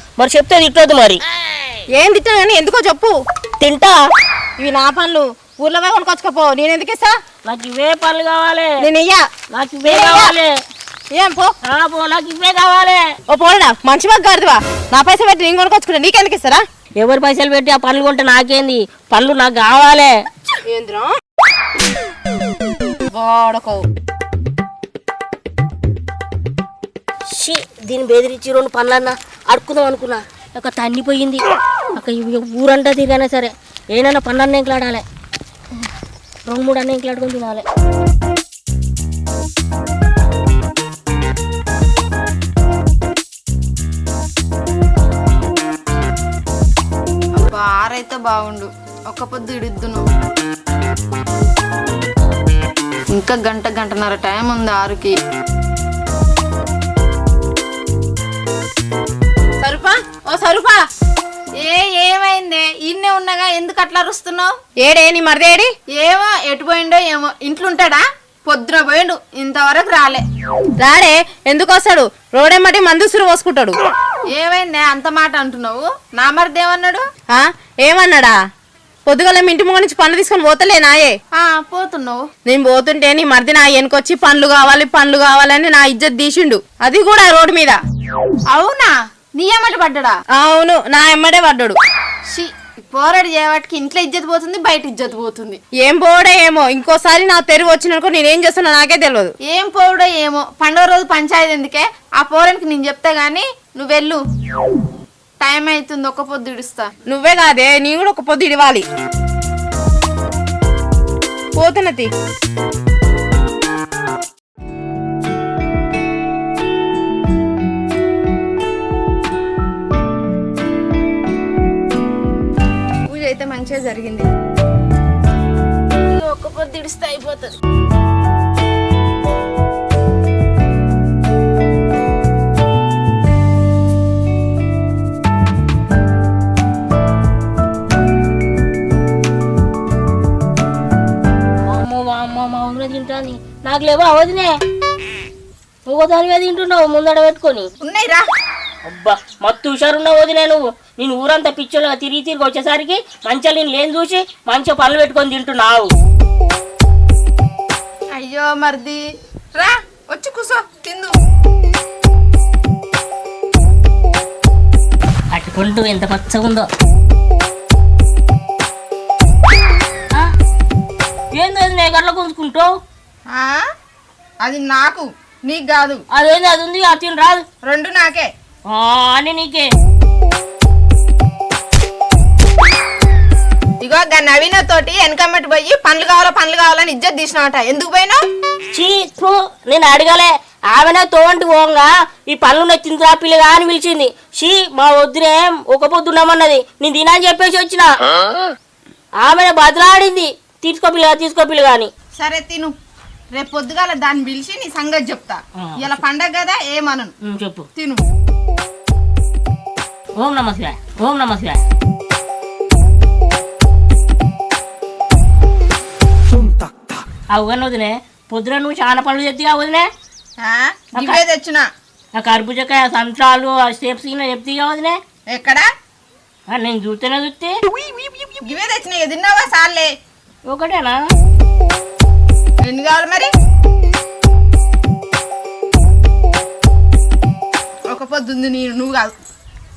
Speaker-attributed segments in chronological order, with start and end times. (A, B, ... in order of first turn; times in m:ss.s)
0:00.2-0:01.2 A
0:01.9-0:03.1 B
0:03.6-0:04.0 A
0:04.6-0:07.1 B
0:07.4-0:08.7 A
0:08.8-0:09.2 B
0:09.5-0:10.5 A
0:09.9-0:10.3 B
0:11.1-0:11.5 B
0:11.7-0:13.0 A
0:13.3-0:16.6 B
0:17.0-0:20.1 A
0:20.7-0:21.1 B
0:23.1-0:23.8 B
0:27.3-0:35.0 A
0:36.5-0:37.6 A
0:47.3-0:50.0 C
0:53.1-0:55.1 C
0:59.6-1:00.8 B
1:01.6-1:04.5 C
1:04.8-1:05.7 B
1:05.9-1:10.2 C
1:10.8-1:13.8 B
1:14.3-1:17.0 C
1:17.3-1:18.3 B
1:19.1-1:21.2 B
1:21.4-1:22.2 C
1:22.4-1:27.8 B
1:28.5-1:30.1 C
1:30.4-1:31.8 B
1:32.3-1:35.6 C
1:35.8-1:39.3 B
1:39.5-1:44.2 C
1:45.4-1:46.9 C
1:47.1-1:48.8 B
1:51.6-1:52.1 B
2:03.1-2:04.3 C
2:06.1-2:07.5 C
2:21.7-2:24.5 A
2:25.9-2:27.7 A
2:27.8-2:28.2 C
2:28.8-2:35.9 A
2:38.1-2:39.0 C
2:39.6-2:41.1 C
2:45.3-2:46.7 A
2:51.3-2:52.7 A
2:53.3-2:53.6 C
2:54.4-2:56.0 C
2:56.1-2:57.4 A
2:57.6-2:58.3 C
2:58.7-2:59.7 A
3:03.8-3:08.2 C
3:08.7-3:17.9 A
3:19.2-3:21.9 A
3:22.2-3:22.7 C
3:23.3-3:27.1 C
3:25.6-3:26.0 A
3:27.2-3:27.6 A
3:27.8-3:28.0 C
3:30.2-3:31.6 A
3:37.3-3:39.9 A
3:40.4-3:41.7 C
3:42.1-3:45.0 A
3:45.3-3:45.7 C
3:46.5-3:47.6 A
3:48.4-3:49.9 C
3:50.5-3:51.0 A
3:52.6-3:53.3 C
3:57.9-3:59.1 C